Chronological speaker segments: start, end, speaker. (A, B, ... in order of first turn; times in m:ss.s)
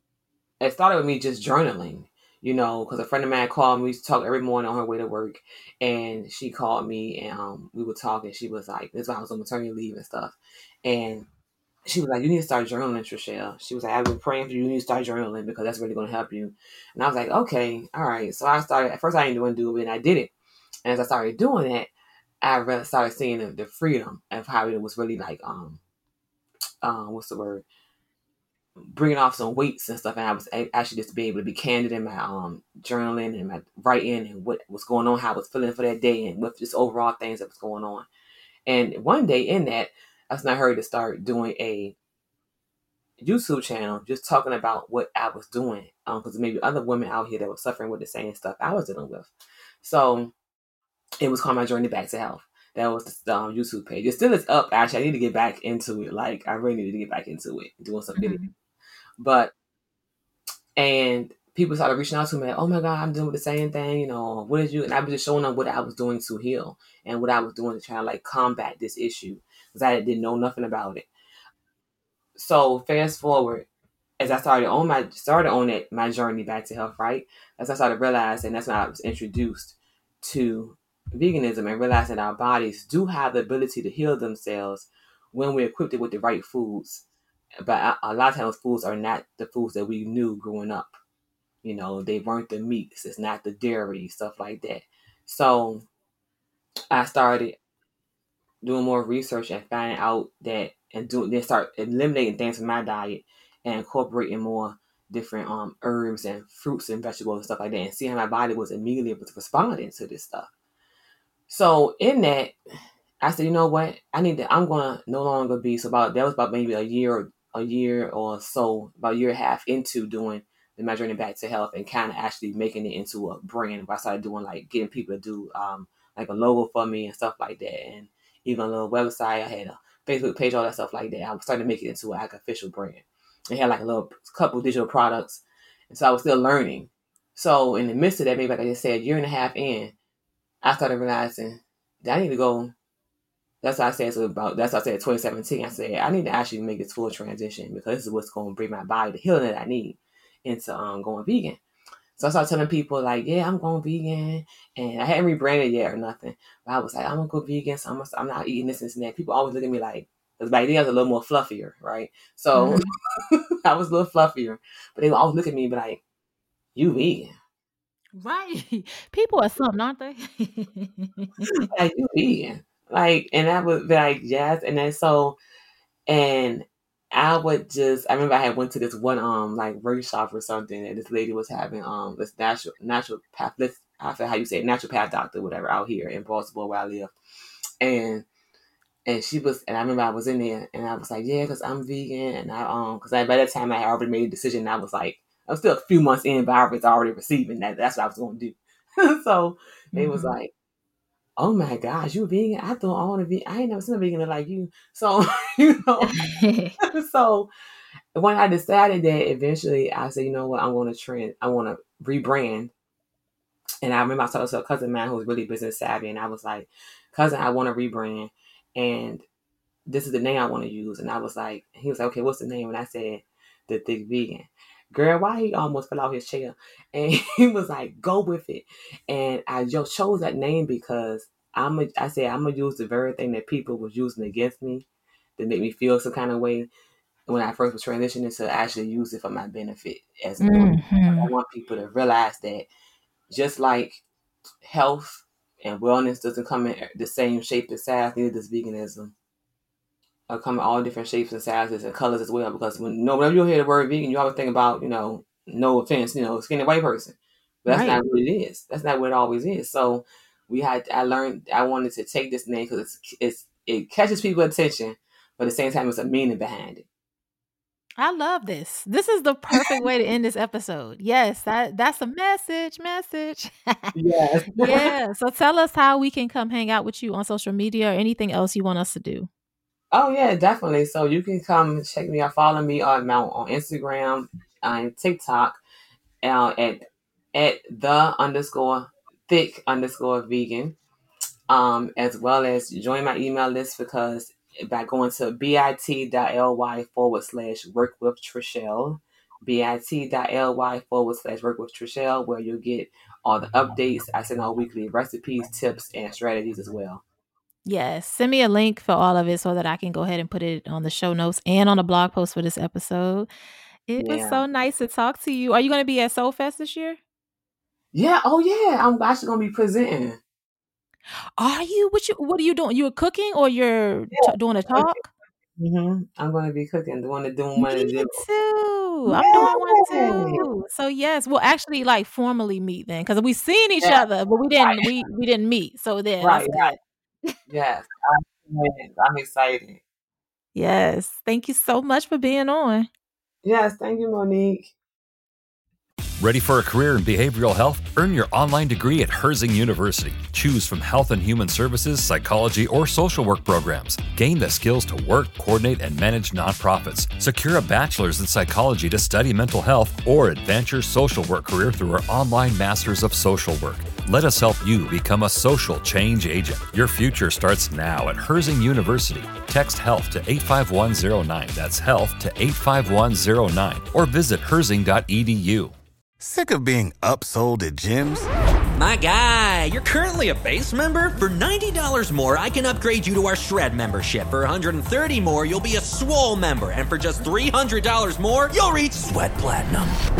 0:00.6-0:11.3 A
0:11.8-0:20.3 A
0:20.8-0:21.9 A
0:22.4-0:25.8 A
0:26.8-0:27.7 A
0:28.8-0:38.1 A
0:38.7-0:42.0 A
0:43.2-0:49.3 A
0:49.8-0:50.3 A
0:51.2-0:58.4 A
0:58.2-0:58.5 B
0:59.2-0:59.5 A
1:00.8-1:11.1 A
1:12.4-1:13.7 A
1:14.2-1:27.0 A
1:27.6-1:31.0 A
1:31.6-1:35.8 A
1:36.9-1:37.6 A
1:38.6-1:50.5 A
1:51.5-1:52.6 A
1:53.2-2:20.0 A
2:20.6-2:22.7 A
2:23.6-2:31.6 A
2:32.2-2:46.0 A
2:42.5-2:42.9 B
2:46.8-2:47.3 A
2:48.2-2:51.7 B
2:51.6-2:55.4 A
2:56.1-3:07.1 A
3:07.8-3:08.3 A
3:09.1-3:20.5 A
3:19.9-3:20.4 B
3:21.4-3:26.2 A
3:26.1-3:26.8 B
3:26.8-3:27.5 A
3:28.1-3:32.7 A
3:33.8-3:39.3 A
3:39.9-3:56.7 A
3:57.3-4:02.7 A
4:00.4-4:01.3 B
4:03.3-4:04.0 A
4:04.6-4:09.1 A
4:10.3-4:26.9 A
4:17.7-4:18.0 B
4:28.0-4:33.9 B
4:33.9-4:34.9 A
4:34.6-4:39.3 B
4:39.9-4:45.6 A
4:46.2-4:50.8 A
4:51.5-5:07.0 A
5:07.6-5:13.3 B
5:13.9-5:17.0 B
5:14.0-5:14.4 A
5:17.9-5:20.2 A
5:21.4-5:25.1 B
5:24.1-5:24.9 A
5:25.6-5:28.2 A
5:27.6-5:36.8 B
5:29.1-5:30.4 A
5:34.6-5:34.9 A
5:36.2-5:36.7 A
5:37.5-5:39.8 A
5:40.6-5:42.9 B
5:43.4-5:44.7 A
5:46.2-6:15.8 C
6:16.2-6:18.3 D
6:18.8-6:30.0 E